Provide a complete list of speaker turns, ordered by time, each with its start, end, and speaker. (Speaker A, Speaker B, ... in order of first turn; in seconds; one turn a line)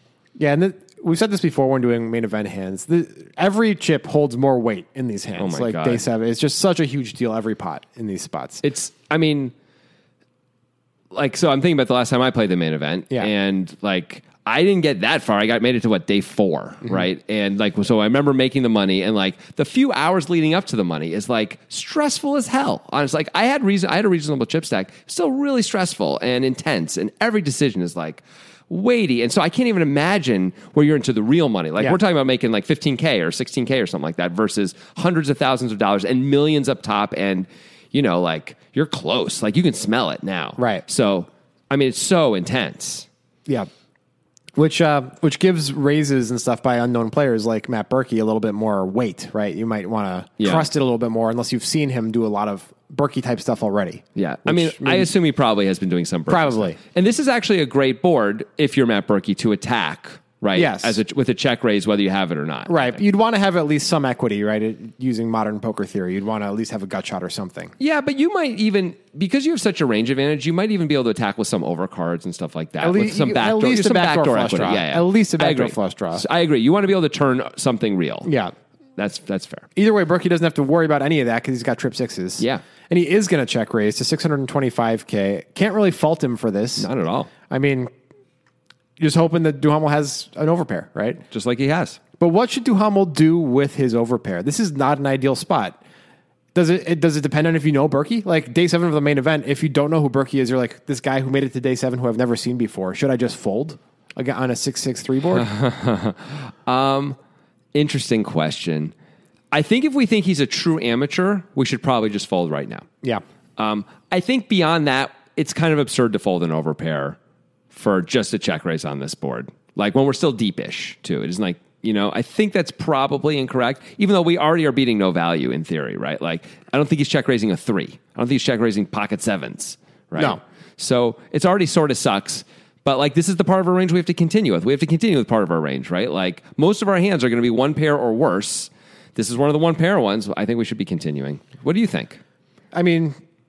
Speaker A: 0.4-8.6
Speaker B: 5.4-6.0
Speaker B: 8.6-9.5
Speaker B: 11.1-43.1
Speaker A: 40.6-40.8
Speaker A: 44.5-55.1
Speaker B: 50.4-50.7
Speaker B: 54.1-63.0
Speaker A: 56.3-56.8
Speaker A: 60.5-61.0
Speaker A: 62.7-67.7
Speaker B: 67.8-78.3
Speaker A: 72.8-76.2
Speaker A: 78.2-78.5
Speaker B: 79.0-79.7
Speaker A: 79.8-86.9
Speaker B: 86.8-87.3
Speaker A: 87.5-87.9
Speaker A: 89.0-91.2
Speaker B: 91.3-92.0
Speaker A: 92.2-95.8
Speaker A: 96.5-105.5
Speaker B: 105.3-107.2
Speaker B: 107.7-108.9
Speaker B: 109.5-112.9
Speaker B: 113.6-117.2
Speaker B: 117.7-142.2
Speaker A: 142.7-143.2